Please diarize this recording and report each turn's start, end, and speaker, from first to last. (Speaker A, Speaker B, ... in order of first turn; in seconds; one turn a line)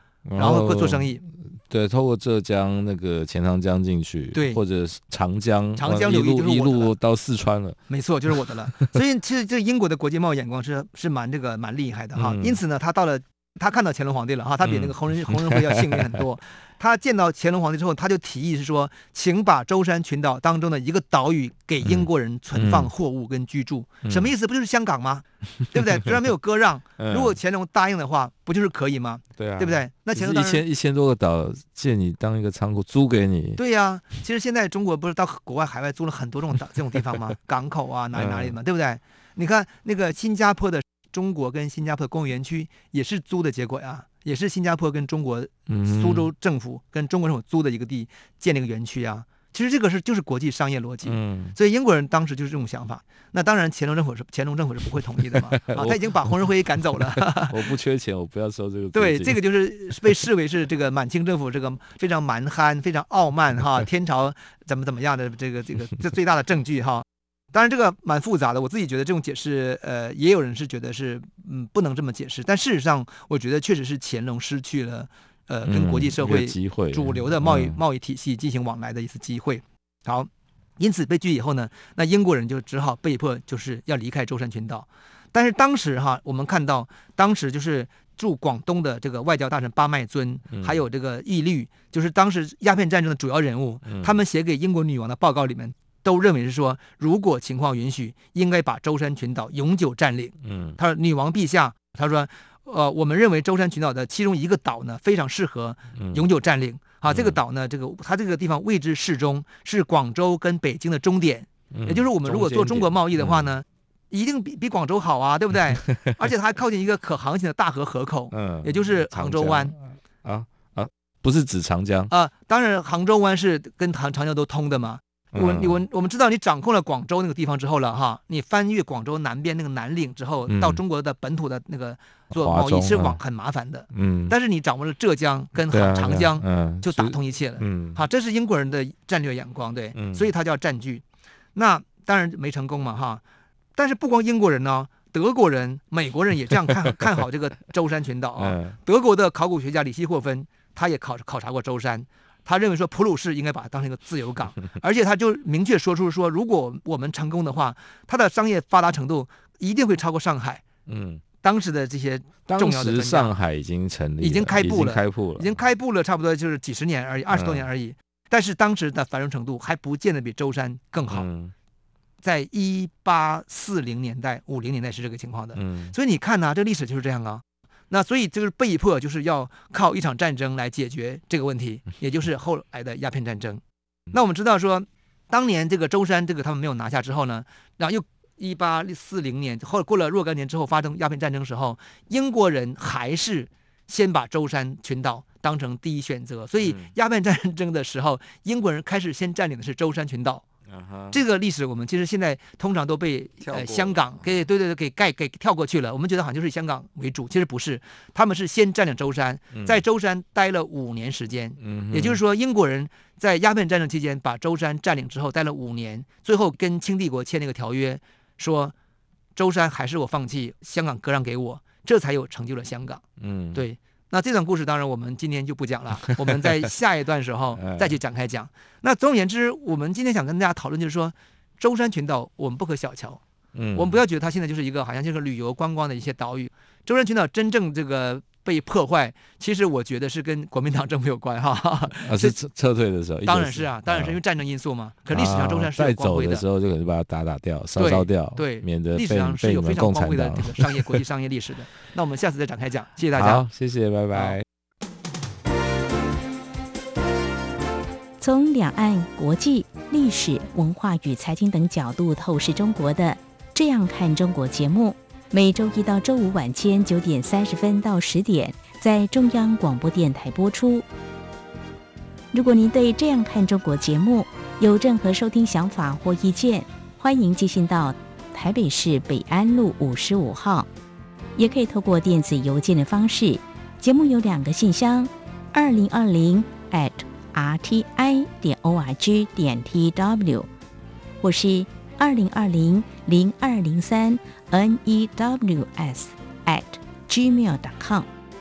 Speaker A: 0.3-7.8
Speaker B: 0.4-1.2
Speaker B: 4.3-4.6
Speaker B: 5.8-6.9
Speaker B: 7.9-30.6
Speaker A: 12.2-12.6
Speaker A: 14.6-16.2
Speaker A: 21.8-22.9
Speaker A: 24.1-24.3
Speaker A: 27.0-27.4
Speaker A: 29.4-33.6
Speaker B: 33.6-57.7
Speaker A: 38.1-38.6
Speaker A: 45.7-46.3
Speaker A: 51.0-51.6
Speaker A: 55.3-56.1
Speaker A: 57.0-59.4
Speaker B: 58.9-119.8
Speaker A: 75.7-77.8
Speaker A: 90.5-90.8
Speaker A: 93.9-94.1
Speaker A: 100.4-100.8
Speaker A: 106.0-106.2
Speaker A: 107.1-107.4
Speaker A: 111.7-113.5
Speaker A: 115.7-116.1
Speaker A: 118.3-122.1
Speaker B: 122.1-141.0
Speaker A: 125.3-125.8
Speaker A: 130.5-130.8
Speaker A: 132.3-133.2
Speaker A: 133.9-134.3
Speaker A: 135.7-138.0
Speaker A: 139.9-140.3
Speaker B: 141.6-143.2
Speaker B: 143.8-160.6
Speaker A: 148.4-148.8
Speaker A: 160.9-161.2
Speaker B: 161.4-163.3
Speaker A: 162.5-165.5
Speaker B: 164.2-171.3
Speaker A: 167.3-167.7
Speaker A: 171.1-171.5
Speaker B: 172.2-183.6
Speaker A: 175.6-175.9
Speaker B: 184.1-200.4
Speaker A: 196.6-196.9
Speaker A: 200.7-201.2
Speaker B: 201.1-218.7
Speaker A: 203.4-204.1
Speaker A: 209.5-209.8
Speaker A: 211.6-212.2
Speaker B: 219.4-223.0
Speaker A: 223.2-223.6
Speaker B: 223.5-233.2
Speaker A: 226.3-226.7
Speaker A: 227.6-228.0
Speaker A: 233.6-234.0
Speaker B: 233.7-242.4
Speaker A: 242.0-244.2
Speaker B: 243.3-246.4
Speaker A: 245.1-251.0
Speaker B: 247.8-253.4
Speaker A: 253.2-254.4
Speaker C: 258.2-270.9
Speaker C: 272.3-280.7
Speaker C: 281.4-290.5
Speaker C: 291.2-298.1